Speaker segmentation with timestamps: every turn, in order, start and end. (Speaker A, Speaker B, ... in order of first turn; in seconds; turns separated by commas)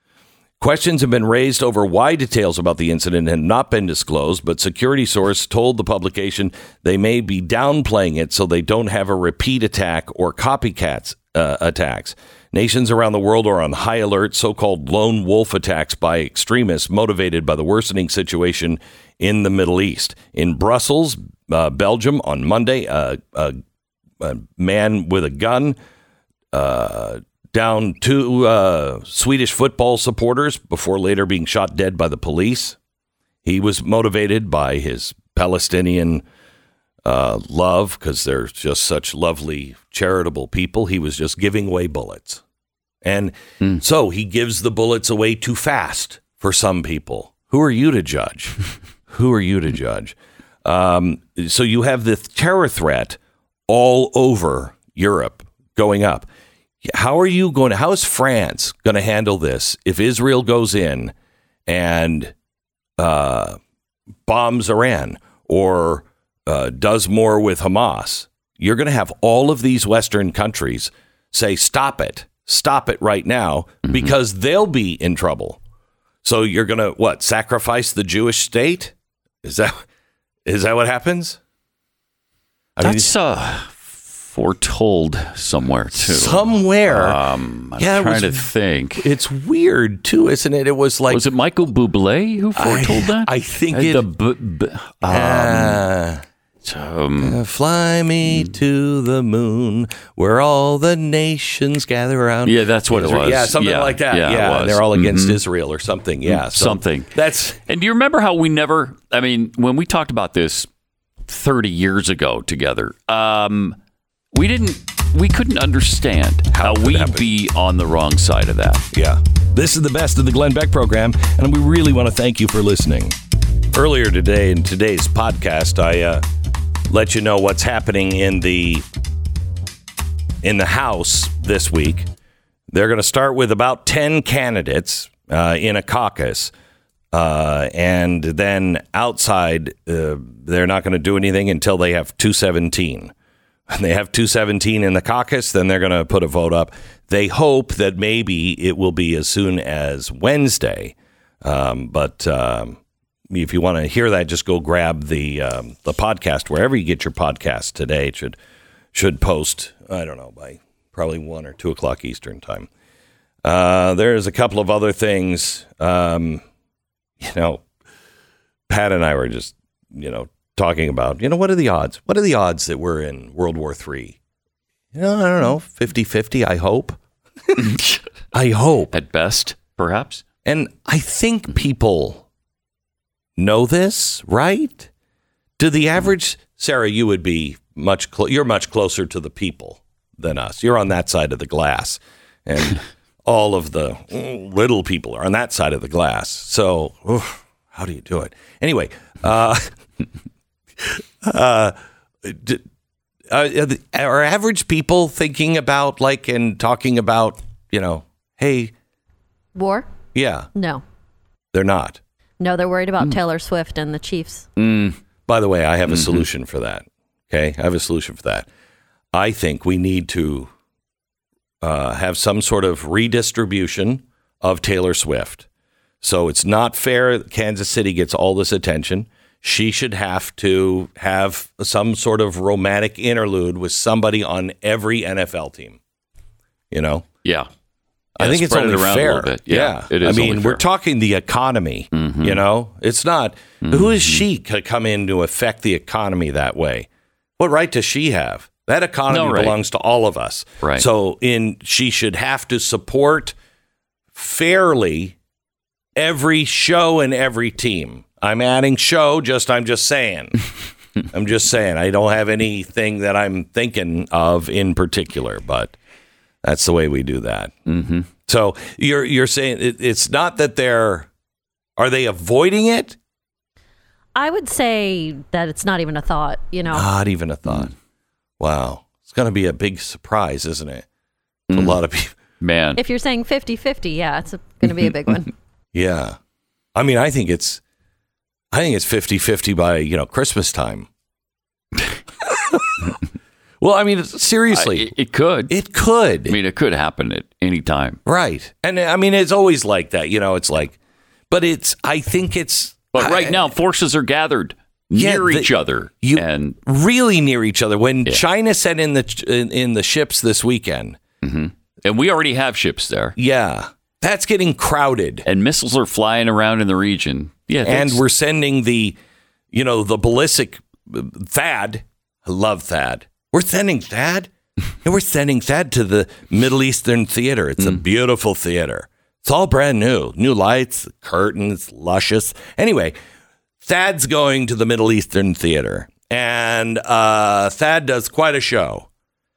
Speaker A: 0.6-23.6, Speaker A: 24.2-25.8, Speaker A: 26.5-32.8, Speaker A: 33.4-36.2, Speaker A: 37.0-42.4, Speaker A: 43.0-48.6, Speaker A: 49.1-56.3, Speaker A: 56.8-61.1, Speaker A: 61.6-62.3, Speaker A: 63.0-63.6, Speaker A: 64.2-75.6, Speaker B: 73.8-74.1, Speaker A: 76.2-79.8, Speaker A: 80.4-81.4, Speaker A: 82.8-83.1, Speaker B: 82.8-89.1, Speaker A: 86.0-87.2, Speaker A: 87.8-91.3, Speaker B: 91.1-95.8, Speaker A: 92.5-94.0, Speaker A: 95.0-96.2, Speaker B: 96.6-97.4, Speaker A: 97.2-107.6, Speaker B: 102.4-105.4, Speaker B: 106.2-107.1, Speaker B: 107.7-110.7, Speaker B: 111.3-113.8, Speaker B: 114.3-118.9, Speaker A: 116.5-117.3, Speaker A: 118.9-123.2, Speaker A: 123.7-126.2, Speaker A: 126.9-128.8, Speaker A: 130.4-132.1, Speaker A: 132.7-136.5, Speaker A: 137.1-143.1, Speaker A: 143.7-152.8, Speaker A: 153.3-158.3, Speaker A: 158.9-162.7, Speaker A: 163.4-166.4, Speaker A: 167.2-167.6, Speaker A: 168.7-174.2, Speaker A: 174.9-177.0, Speaker B: 177.6-178.0, Speaker A: 178.3-178.9, Speaker B: 178.9-180.2, Speaker A: 180.4-182.2, Speaker A: 183.4-184.9, Speaker A: 185.6-199.7, Speaker A: 200.8-202.6, Speaker A: 203.3-208.7, Speaker C: 209.5-209.9, Speaker A: 210.1-210.5, Speaker C: 210.5-210.8, Speaker A: 211.5-212.0, Speaker C: 212.4-214.5, Speaker B: 214.6-215.0, Speaker A: 215.3-218.5, Speaker B: 215.9-216.2, Speaker A: 219.1-220.5, Speaker A: 221.6-225.4, Speaker A: 226.0-235.8, Speaker A: 236.7-237.1, Speaker A: 238.2-246.9, Speaker B: 238.2-240.6, Speaker B: 241.9-242.4, Speaker B: 243.7-244.2, Speaker A: 247.4-253.3, Speaker B: 249.1-249.6, Speaker B: 250.6-250.9, Speaker A: 254.1-255.2, Speaker A: 255.9-260.4, Speaker A: 261.1-265.8, Speaker A: 266.4-267.5, Speaker B: 267.7-268.1, Speaker A: 268.2-271.1, Speaker A: 271.8-273.0, Speaker C: 274.1-276.9, Speaker A: 276.7-277.7, Speaker A: 278.4-280.9, Speaker B: 281.5-281.8, Speaker A: 281.5-282.1, Speaker B: 282.4-282.8, Speaker C: 282.8-285.3, Speaker A: 285.7-286.2, Speaker A: 286.7-287.6, Speaker A: 288.5-290.9, Speaker A: 292.2-292.9, Speaker A: 293.6-294.9, Speaker B: 294.5-295.5, Speaker A: 295.5-296.4, Speaker B: 296.2-298.0, Speaker A: 298.1-300.8, Speaker A: 301.3-303.5, Speaker B: 302.9-306.6, Speaker A: 304.9-305.5, Speaker A: 306.0-311.0, Speaker B: 311.2-313.1, Speaker A: 313.2-315.2, Speaker B: 315.2-318.0, Speaker A: 317.6-318.9, Speaker A: 319.5-324.3, Speaker A: 324.8-332.9, Speaker A: 333.6-338.9